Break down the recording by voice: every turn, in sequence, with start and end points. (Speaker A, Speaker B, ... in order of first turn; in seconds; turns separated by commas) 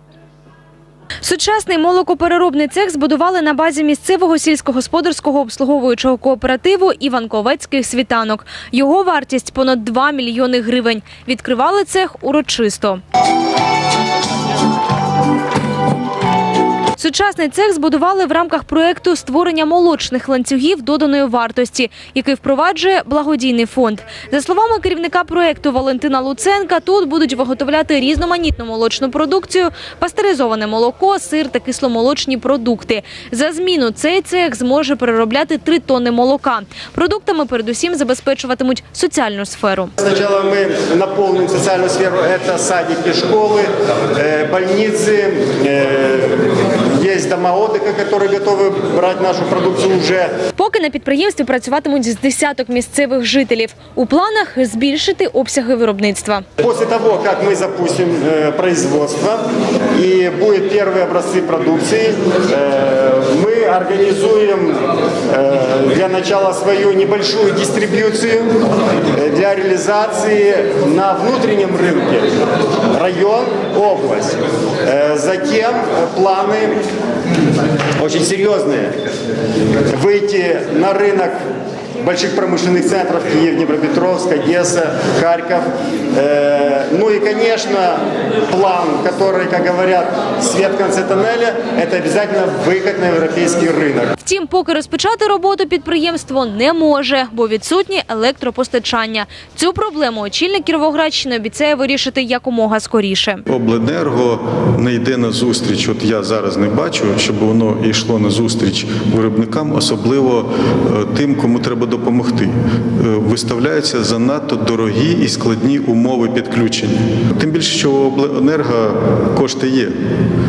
Speaker A: 1.2-13.0, Speaker A: 17.0-39.9, Speaker B: 40.0-50.3, Speaker A: 50.5-56.4, Speaker B: 56.6-59.4, Speaker B: 59.9-68.5, Speaker B: 69.1-72.3, Speaker B: 72.9-76.8, Speaker B: 78.0-78.9, Speaker B: 79.9-81.4, Speaker B: 82.0-94.1, Speaker A: 94.2-103.4, Speaker C: 103.5-119.9